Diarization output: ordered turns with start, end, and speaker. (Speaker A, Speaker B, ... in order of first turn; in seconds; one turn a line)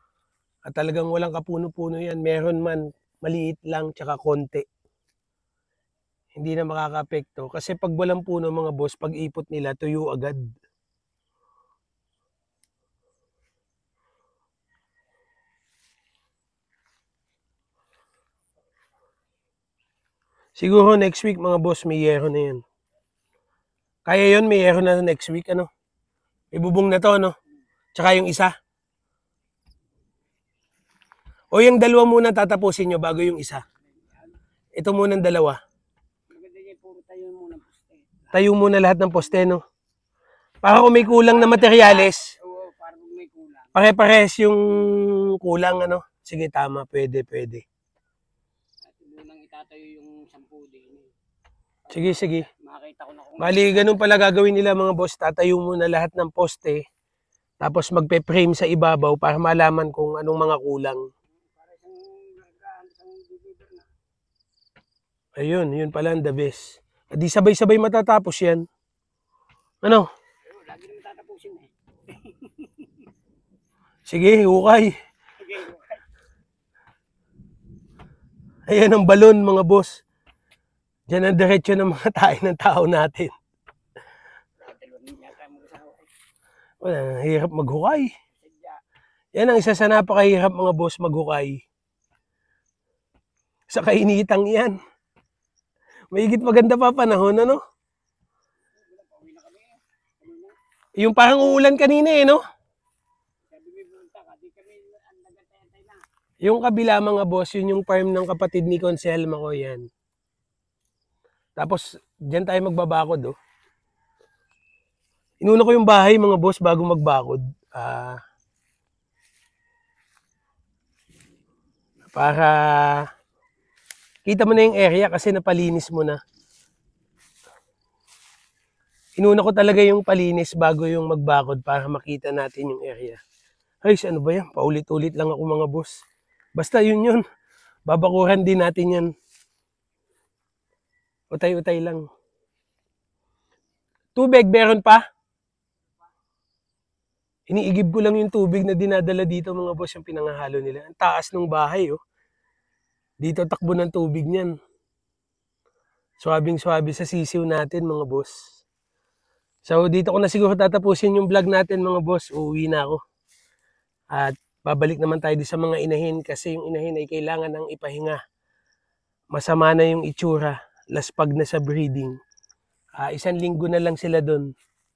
Speaker A: 0.7-4.6
Speaker A: 6.3-10.4
Speaker A: 20.6-22.6
Speaker A: 24.1-25.7
Speaker A: 26.5-27.3
Speaker A: 27.9-28.5
Speaker A: 31.5-33.6
Speaker A: 34.8-35.6
Speaker B: 36.3-38.3
Speaker A: 38.3-39.6
Speaker A: 40.6-42.3
Speaker B: 40.9-43.7
Speaker A: 43.7-47.6
Speaker B: 48.9-51.1
Speaker B: 51.9-54.0
Speaker A: 51.9-52.5
Speaker A: 53.4-56.8
Speaker A: 57.6-61.0
Speaker B: 61.4-63.9
Speaker A: 65.4-68.6
Speaker B: 70.5-73.0
Speaker A: 74.1-74.9
Speaker B: 75.4-76.0
Speaker A: 78.7-80.0
Speaker A: 81.1-83.3
Speaker B: 84.6-86.1
Speaker A: 86.8-88.1
Speaker B: 88.4-88.8
Speaker A: 89.3-91.6
Speaker A: 93.7-94.8
Speaker A: 96.1-97.6
Speaker B: 98.8-100.5
Speaker A: 101.0-102.4
Speaker B: 103.5-106.0
Speaker A: 106.4-109.8
Speaker A: 111.6-113.3
Speaker A: 115.4-118.2
Speaker A: 122.1-123.0
Speaker A: 124.2-126.2
Speaker A: 129.2-133.2
Speaker A: 133.8-135.9
Speaker A: 136.6-137.2
Speaker A: 137.9-139.1
Speaker A: 141.3-142.0
Speaker A: 144.2-145.0
Speaker A: 147.5-152.0
Speaker A: 153.2-154.5
Speaker A: 156.2-158.3
Speaker A: 159.7-163.0
Speaker A: 164.1-168.2
Speaker A: 169.3-172.2
Speaker A: 173.0-174.5